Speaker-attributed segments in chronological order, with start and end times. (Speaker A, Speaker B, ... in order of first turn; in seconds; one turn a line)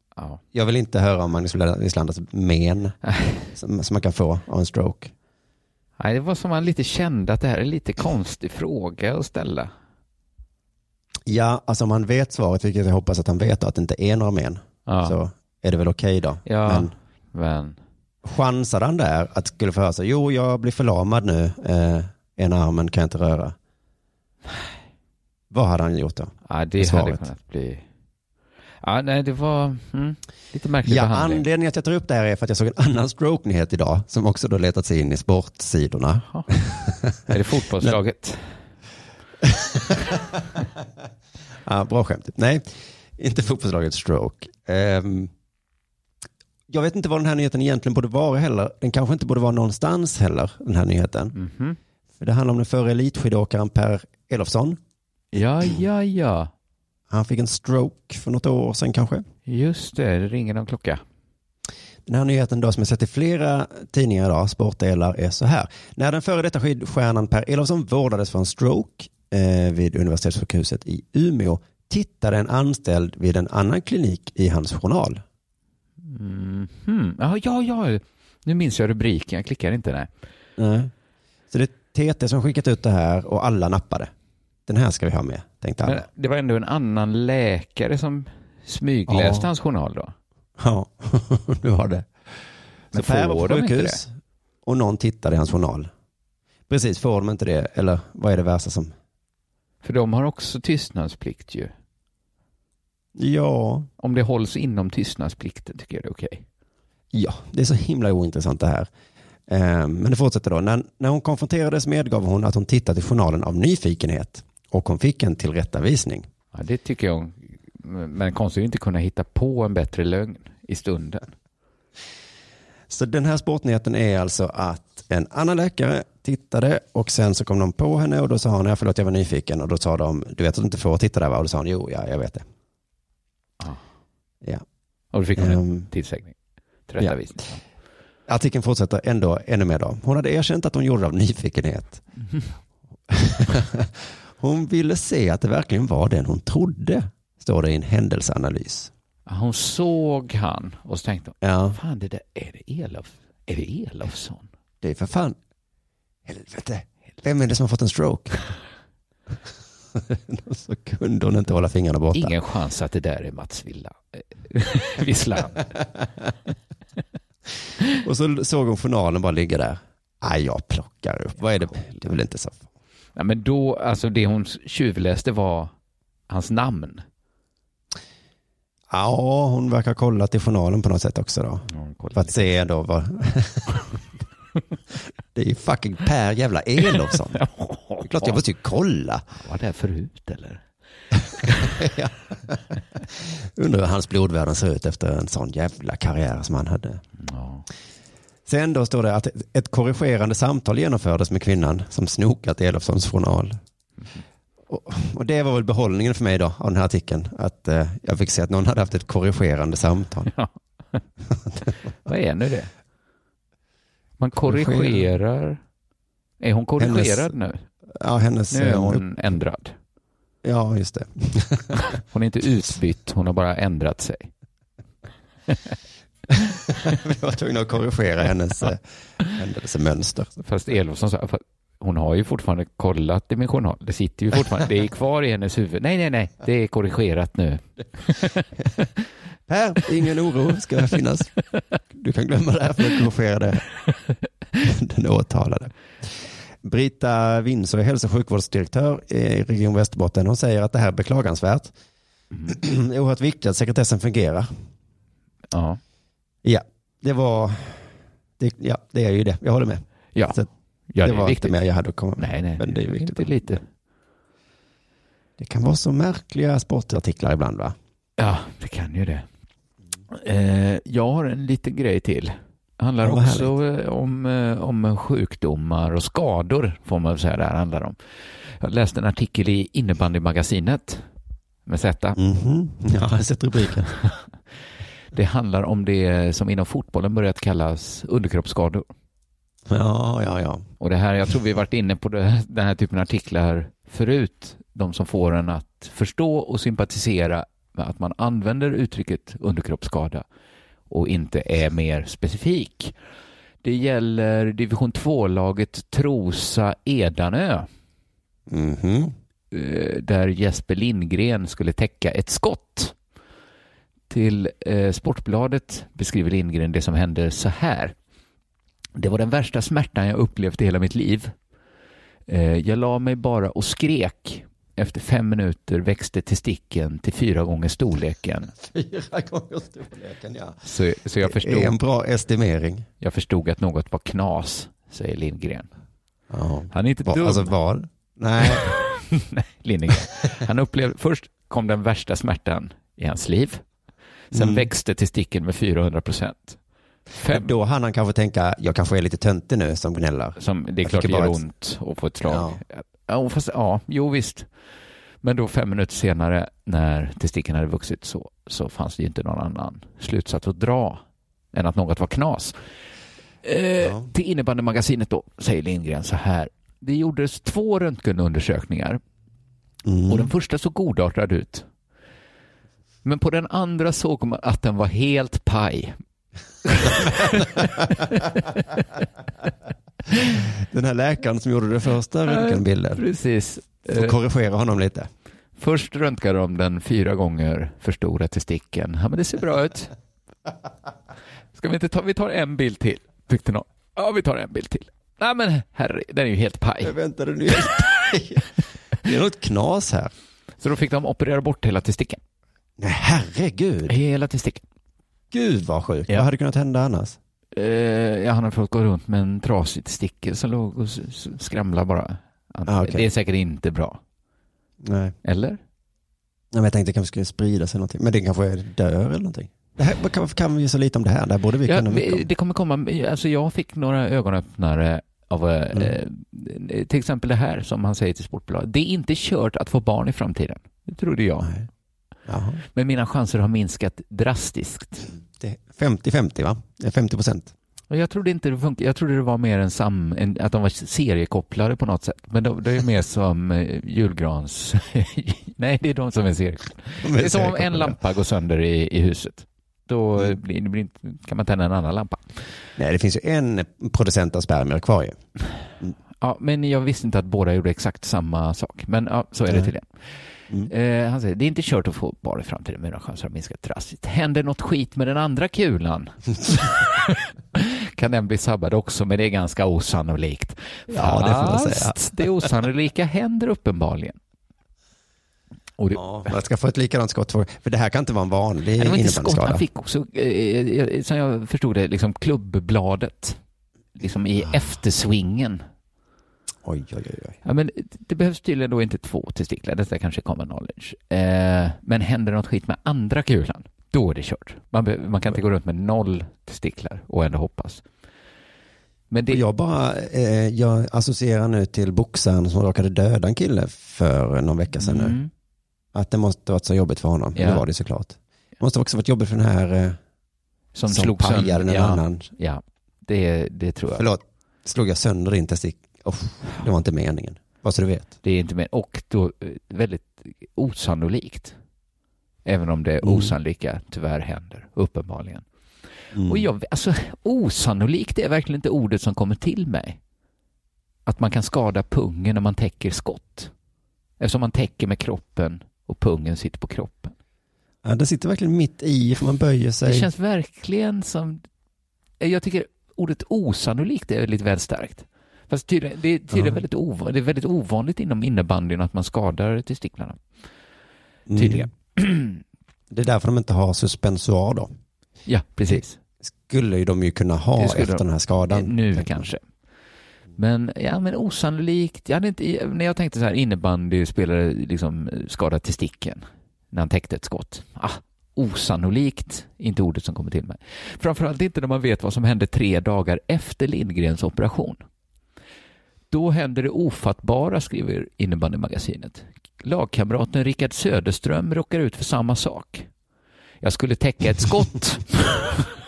Speaker A: 0.5-3.0
Speaker B: 3.1-3.4
Speaker A: 3.5-5.1
Speaker B: 6.0-9.7
Speaker A: 11.3-16.9
Speaker B: 14.9-15.2
Speaker B: 16.4-17.8
Speaker A: 18.2-23.6
Speaker A: 25.5-27.3
Speaker B: 26.4-27.8
Speaker B: 28.8-31.4
Speaker A: 30.9-37.9
Speaker B: 37.3-38.5
Speaker A: 39.4-40.5
Speaker A: 41.6-45.3
Speaker A: 46.7-51.3
Speaker B: 51.4-51.8
Speaker A: 52.2-54.8
Speaker B: 55.3-56.5
Speaker A: 57.1-59.3
Speaker B: 59.5-61.0
Speaker A: 62.0-75.2
Speaker B: 76.0-80.1
Speaker A: 80.6-80.9
Speaker A: 81.5-84.1
Speaker A: 84.7-86.0
Speaker B: 85.8-90.1
Speaker A: 89.1-89.5
Speaker A: 90.6-92.1
Speaker B: 92.9-94.0
Speaker A: 92.9-94.1
Speaker A: 94.6-95.9
Speaker A: 96.7-98.9
Speaker B: 99.8-101.7
Speaker A: 103.1-103.9
Speaker B: 104.0-106.5
Speaker A: 107.1-108.9
Speaker A: 109.5-116.3
Speaker B: 116.5-121.3
Speaker A: 122.9-132.4
Speaker B: 135.1-136.4
Speaker A: 135.4-135.9
Speaker B: 136.9-137.6
Speaker A: 138.3-142.0
Speaker A: 143.1-148.9
Speaker B: 149.3-154.5
Speaker A: 151.4-151.8
Speaker A: 154.8-155.4
Speaker A: 156.3-158.4
Speaker A: 159.9-162.3
Speaker B: 162.1-165.7
Speaker A: 168.0-172.6
Speaker B: 173.2-175.7
Speaker B: 176.3-177.0
Speaker A: 178.9-183.9
Speaker B: 181.7-182.4
Speaker A: 185.3-187.4
Speaker B: 187.3-188.4
Speaker A: 188.0-189.2
Speaker B: 189.4-190.6
Speaker A: 191.4-197.0
Speaker B: 191.4-191.7
Speaker B: 197.2-197.7
Speaker A: 198.4-203.6
Speaker A: 204.7-210.3
Speaker B: 210.3-211.0
Speaker B: 212.1-212.7
Speaker B: 214.2-215.6
Speaker A: 214.3-215.1
Speaker B: 216.4-217.6
Speaker A: 216.8-217.3
Speaker A: 217.9-219.0
Speaker B: 218.5-219.8
Speaker A: 220.4-221.8
Speaker B: 221.8-224.3
Speaker A: 226.3-230.3
Speaker B: 230.4-238.8
Speaker A: 239.5-241.3
Speaker A: 241.9-243.6
Speaker A: 244.6-251.7
Speaker A: 252.4-254.5
Speaker B: 255.5-255.8
Speaker A: 256.4-260.5
Speaker B: 260.1-261.6
Speaker A: 261.0-263.4
Speaker B: 262.2-263.7
Speaker A: 265.4-267.8
Speaker B: 268.2-269.3
Speaker B: 270.1-278.0
Speaker A: 273.0-273.5
Speaker B: 278.6-281.0
Speaker B: 281.7-282.2
Speaker A: 282.2-283.9
Speaker B: 285.1-288.9
Speaker A: 289.7-290.6
Speaker B: 290.8-300.2
Speaker B: 300.9-302.9
Speaker B: 303.6-307.7
Speaker A: 308.5-309.1
Speaker B: 309.5-312.9
Speaker B: 314.1-317.9
Speaker B: 319.0-321.3
Speaker B: 322.3-328.5
Speaker A: 328.5-330.6
Speaker B: 330.6-331.8
Speaker A: 331.2-332.9
Speaker B: 333.0-335.7
Speaker A: 336.3-338.7
Speaker B: 336.7-337.6
Speaker B: 338.4-343.6
Speaker A: 344.3-344.7
Speaker B: 344.3-346.6
Speaker B: 347.1-347.5
Speaker A: 347.3-351.4
Speaker B: 350.4-354.5
Speaker A: 352.3-352.6
Speaker B: 355.2-361.0
Speaker B: 361.5-362.6
Speaker B: 363.4-369.0
Speaker A: 363.8-364.1
Speaker A: 369.9-370.3
Speaker B: 370.1-371.7
Speaker B: 373.0-376.0
Speaker B: 376.6-378.9
Speaker A: 380.4-383.0
Speaker B: 382.3-384.1
Speaker A: 383.9-385.1
Speaker B: 385.6-389.9
Speaker B: 391.6-396.9
Speaker A: 396.8-398.5
Speaker A: 399.0-400.1
Speaker B: 400.6-402.2
Speaker A: 402.8-403.9
Speaker B: 403.9-404.6
Speaker A: 405.3-407.2
Speaker B: 407.5-414.0
Speaker A: 412.7-413.1
Speaker A: 414.8-415.1
Speaker B: 415.2-415.6
Speaker A: 416.5-422.3
Speaker B: 421.7-431.5
Speaker A: 432.3-432.6
Speaker B: 432.7-435.1
Speaker A: 435.3-437.5
Speaker B: 437.9-452.3
Speaker A: 447.0-448.0
Speaker A: 452.8-455.2
Speaker B: 456.2-474.2
Speaker A: 470.9-472.5
Speaker B: 475.8-476.3
Speaker A: 475.9-479.6
Speaker B: 478.8-483.4
Speaker B: 483.9-485.6
Speaker A: 486.6-487.4
Speaker B: 487.4-497.8
Speaker B: 499.1-499.4
Speaker A: 499.3-505.2
Speaker B: 504.8-505.3
Speaker A: 505.9-510.0
Speaker B: 507.4-507.6
Speaker B: 510.7-514.0
Speaker A: 510.9-512.3
Speaker A: 514.0-518.1
Speaker B: 518.2-521.5
Speaker B: 522.5-525.5
Speaker A: 523.0-523.3
Speaker A: 526.1-526.5
Speaker B: 526.2-530.0
Speaker B: 531.0-533.5
Speaker B: 534.2-537.1
Speaker A: 537.8-540.1
Speaker B: 539.9-541.5
Speaker B: 542.2-550.2
Speaker A: 551.3-551.7
Speaker B: 551.4-552.4
Speaker A: 552.9-554.7
Speaker B: 555.3-556.0
Speaker A: 555.7-559.3
Speaker B: 557.5-559.4
Speaker B: 560.4-574.8
Speaker B: 576.1-582.9
Speaker B: 583.6-585.7